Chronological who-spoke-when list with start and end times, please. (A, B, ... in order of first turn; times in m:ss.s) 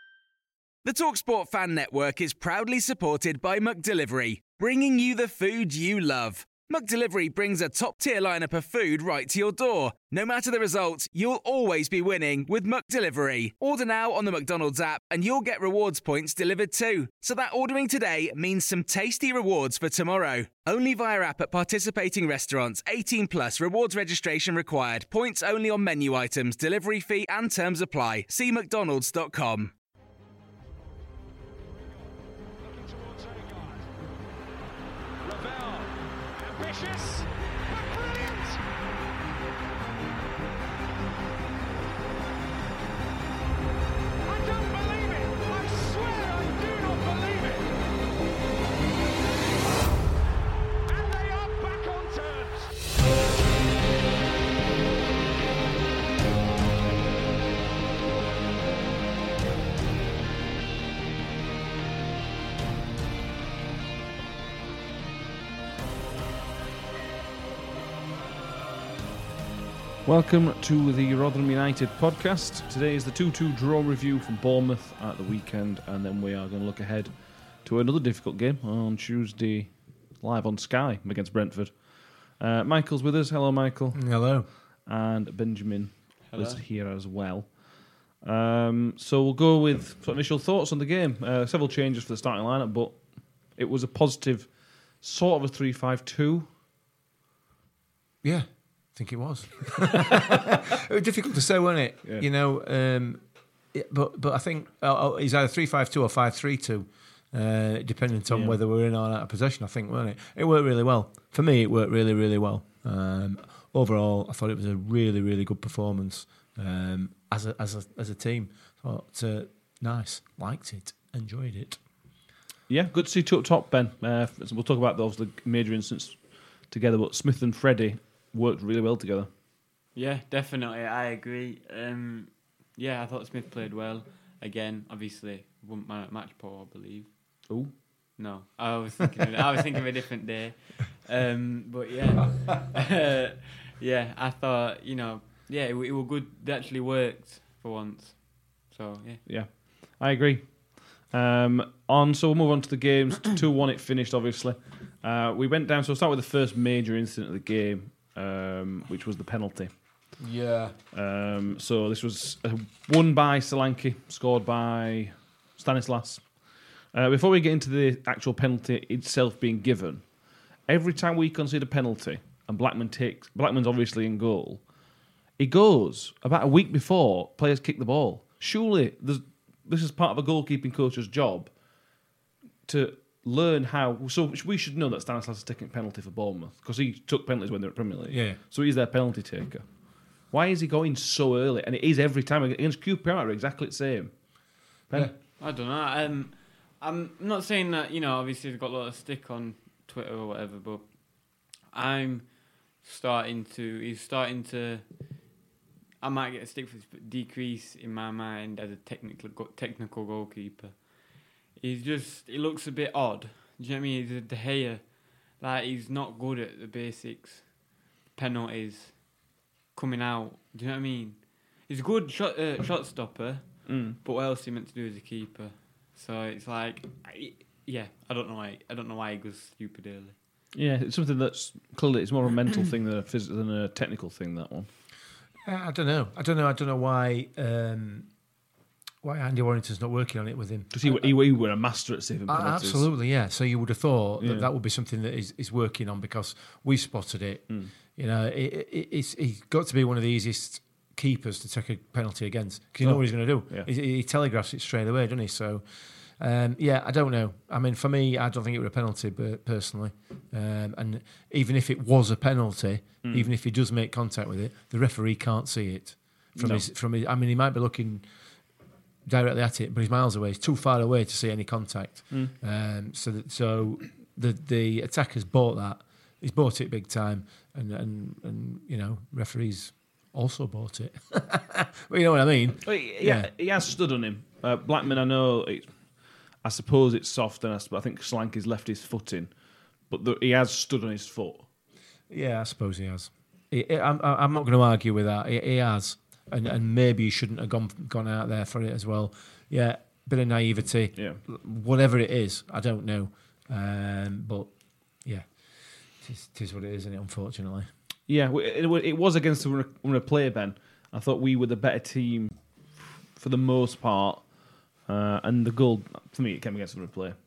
0:00.8-0:29.7 A
0:33.0-0:33.3 B
0:35.3-0:35.8 B
0:36.5-0:37.2 B
0:38.0-0:38.5 B
0:44.4-0:47.6 B
0:51.0-0:52.4 B
1:10.0-1:36.5 C
1:23.9-1:24.5 D
1:26.3-1:26.6 E
1:38.2-2:01.8 D
1:48.3-1:48.6 C
2:02.7-2:09.3 C
2:09.9-2:17.5 E
2:17.5-2:17.8 C
2:18.2-2:29.2 E
2:29.2-2:39.7 C
2:40.2-2:40.7 D
2:40.9-2:54.7 C
2:55.4-3:01.5 C
3:02.6-3:15.1 C
3:08.1-3:08.4 D
3:15.4-3:24.9 E
3:26.0-3:50.2 E
3:43.6-3:44.0 C
3:50.5-3:54.7 C
3:55.4-3:58.2 D
3:59.0-4:01.4 D
4:00.7-4:02.9 C
4:02.2-4:28.1 D
4:04.2-4:04.5 C
4:12.8-4:13.7 C
4:23.0-4:23.3 C
4:26.3-4:26.6 C
4:29.0-4:43.3 D
4:42.6-4:49.3 C
4:49.9-4:51.5 C
4:52.1-5:07.7 D
5:08.1-5:17.2 C